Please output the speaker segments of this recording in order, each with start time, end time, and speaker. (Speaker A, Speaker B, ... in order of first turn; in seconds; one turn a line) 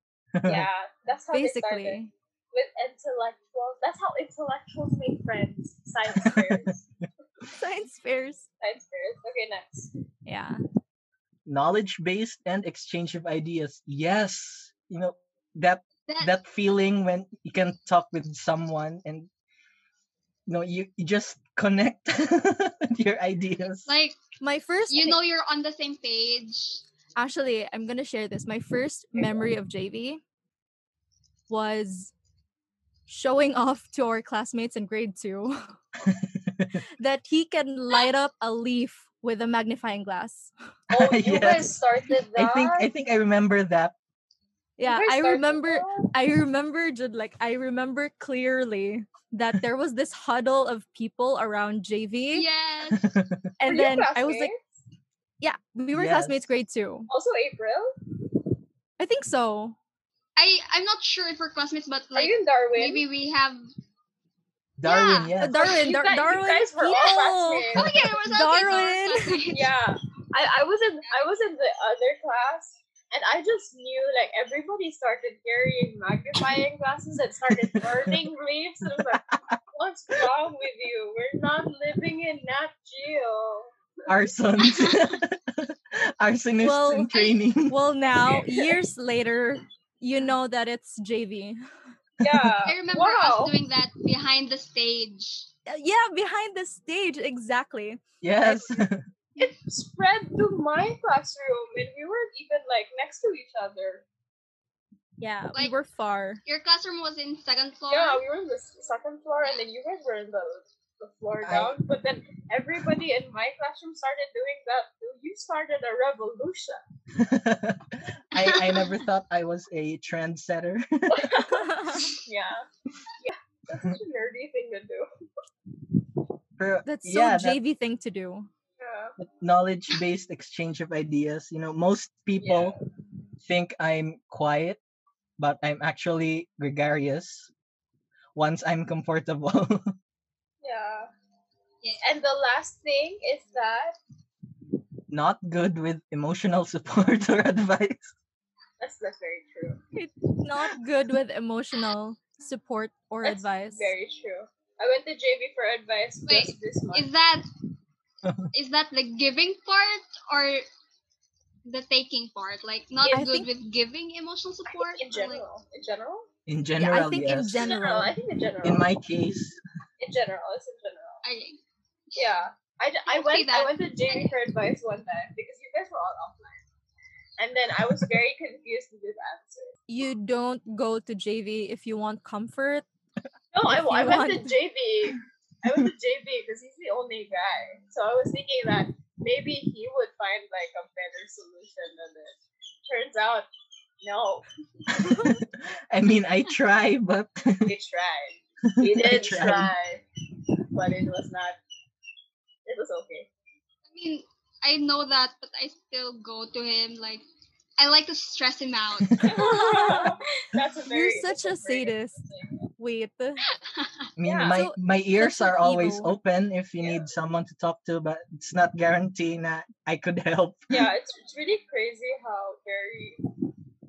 Speaker A: 0.4-0.7
Speaker B: 0.5-2.0
Speaker C: 1.3-2.1
Speaker B: 2.5-6.9
Speaker A: 6.1-6.7
Speaker C: 7.5-8.4
Speaker B: 8.6-9.9
Speaker C: 10.3-10.6
Speaker A: 11.4-19.3
Speaker D: 16.1-16.3
Speaker A: 20.5-23.9
Speaker D: 23.9-24.2
Speaker C: 24.4-25.2
Speaker D: 24.9-26.8
Speaker C: 27.1-30.2
Speaker B: 29.1-29.5
Speaker C: 31.5-32.1
Speaker C: 33.1-35.8
Speaker A: 36.1-36.7
Speaker C: 37.0-40.5
Speaker A: 40.9-41.8
Speaker B: 40.9-42.9
Speaker A: 42.4-43.9
Speaker C: 44.8-52.5
Speaker B: 44.8-46.1
Speaker D: 52.3-53.1
Speaker A: 52.9-53.4
Speaker C: 53.6-54.5
Speaker B: 53.6-54.6
Speaker C: 55.4-57.1
Speaker A: 55.9-56.5
Speaker B: 57.1-57.9
Speaker C: 59.0-59.8
Speaker D: 60.4-63.6
Speaker B: 62.1-63.0
Speaker A: 64.8-65.8
Speaker D: 64.8-65.3
Speaker C: 65.4-69.4
Speaker B: 65.5-68.0
Speaker D: 67.7-69.7
Speaker B: 69.5-83.7
Speaker A: 77.5-78.3
Speaker A: 79.0-79.6
Speaker A: 84.1-87.8
Speaker D: 84.7-85.1
Speaker C: 86.6-87.1
Speaker D: 87.1-87.4
Speaker C: 87.7-91.6
Speaker B: 88.3-88.8
Speaker B: 92.2-93.5
Speaker A: 92.2-92.5
Speaker D: 92.6-95.5
Speaker C: 95.7-98.8
Speaker A: 98.2-99.0
Speaker B: 99.4-104.0
Speaker C: 105.2-106.4
Speaker D: 106.4-108.2
Speaker B: 107.9-116.8
Speaker A: 111.4-111.8
Speaker A: 117.1-121.4
Speaker D: 118.4-119.0
Speaker B: 121.1-122.7
Speaker C: 121.6-122.1
Speaker B: 123.2-125.1
Speaker A: 126.6-127.6
Speaker C: 126.9-128.5
Speaker B: 128.8-129.2
Speaker A: 129.2-132.8
Speaker B: 132.4-132.8
Speaker A: 133.4-134.8
Speaker A: 135.4-137.5
Speaker A: 138.4-139.9
Speaker B: 140.6-141.1
Speaker B: 142.0-143.9
Speaker A: 145.1-148.1
Speaker B: 148.8-149.8
Speaker C: 149.9-153.9
Speaker B: 153.2-157.1
Speaker D: 156.3-157.4
Speaker A: 158.2-158.5
Speaker D: 158.5-160.6
Speaker D: 161.6-165.4
Speaker C: 163.1-163.5
Speaker B: 164.7-166.3
Speaker A: 166.5-167.7
Speaker C: 166.8-168.2
Speaker B: 167.5-168.9
Speaker A: 168.6-169.6
Speaker B: 170.0-171.2
Speaker D: 171.2-171.6
Speaker B: 172.1-176.6
Speaker D: 173.1-174.4
Speaker B: 177.4-179.8
Speaker C: 179.9-182.9
Speaker B: 183.5-193.5
Speaker C: 183.7-184.6
Speaker B: 194.0-195.1
Speaker A: 194.9-197.7
Speaker B: 197.7-200.0
Speaker A: 198.8-199.7
Speaker B: 200.7-201.6
Speaker B: 202.7-203.3
Speaker D: 203.9-207.2
Speaker D: 207.8-209.3
Speaker A: 209.0-209.3
Speaker B: 209.2-212.6
Speaker C: 209.3-210.1
Speaker C: 210.9-212.2
Speaker C: 212.8-213.4
Speaker D: 213.7-214.1
Speaker A: 214.2-220.9
Speaker B: 214.2-214.6
Speaker C: 214.5-216.1
Speaker B: 216.8-217.1
Speaker B: 220.7-223.2